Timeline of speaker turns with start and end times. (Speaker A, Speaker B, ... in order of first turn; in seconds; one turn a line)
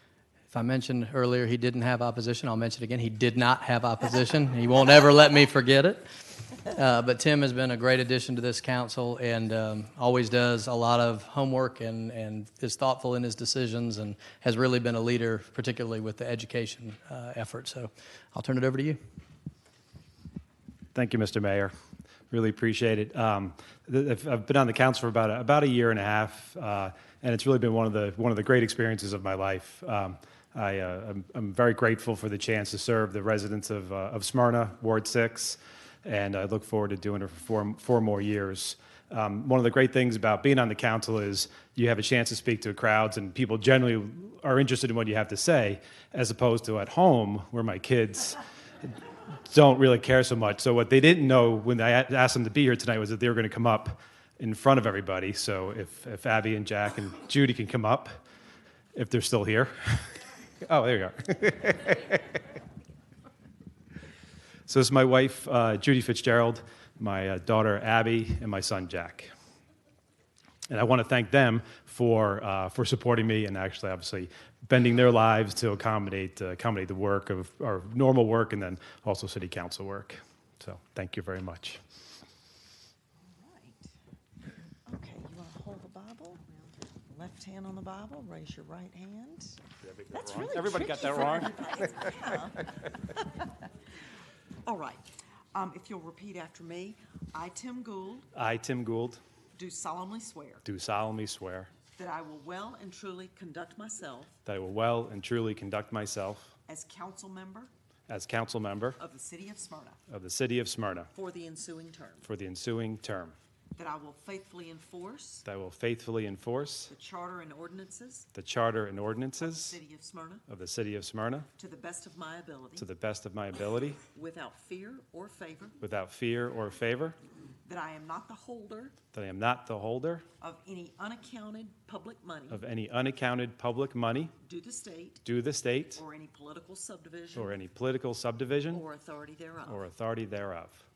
Speaker A: 0.5-19.0
Speaker B: 20.9-21.7
Speaker B: 22.3-48.4
Speaker B: 49.5-58.2
Speaker B: 58.9-62.4
Speaker B: 64.7-69.3
Speaker B: 70.7-81.8
Speaker C: 83.2-83.9
Speaker C: 84.9-86.4
Speaker C: 87.1-89.6
Speaker B: 89.9-91.6
Speaker C: 90.1-93.4
Speaker C: 94.7-98.3
Speaker B: 98.3-99.2
Speaker C: 99.6-100.7
Speaker B: 100.7-101.7
Speaker C: 102.0-104.4
Speaker B: 104.5-106.5
Speaker C: 106.7-107.7
Speaker B: 108.1-109.0
Speaker C: 109.0-110.0
Speaker B: 110.1-111.1
Speaker C: 111.1-112.3
Speaker B: 112.2-113.3
Speaker C: 113.8-115.5
Speaker B: 115.5-116.9
Speaker C: 116.9-118.3
Speaker B: 118.3-119.8
Speaker C: 119.4-120.4
Speaker B: 120.5-121.5
Speaker C: 121.6-122.9
Speaker B: 122.8-124.0
Speaker C: 124.1-125.8
Speaker B: 125.8-127.2
Speaker C: 127.7-128.9
Speaker B: 129.1-130.2
Speaker C: 130.4-132.6
Speaker B: 132.5-134.3
Speaker C: 134.4-135.2
Speaker B: 135.2-136.0
Speaker C: 136.0-137.6
Speaker B: 137.3-138.8
Speaker C: 138.7-139.9
Speaker B: 139.7-140.8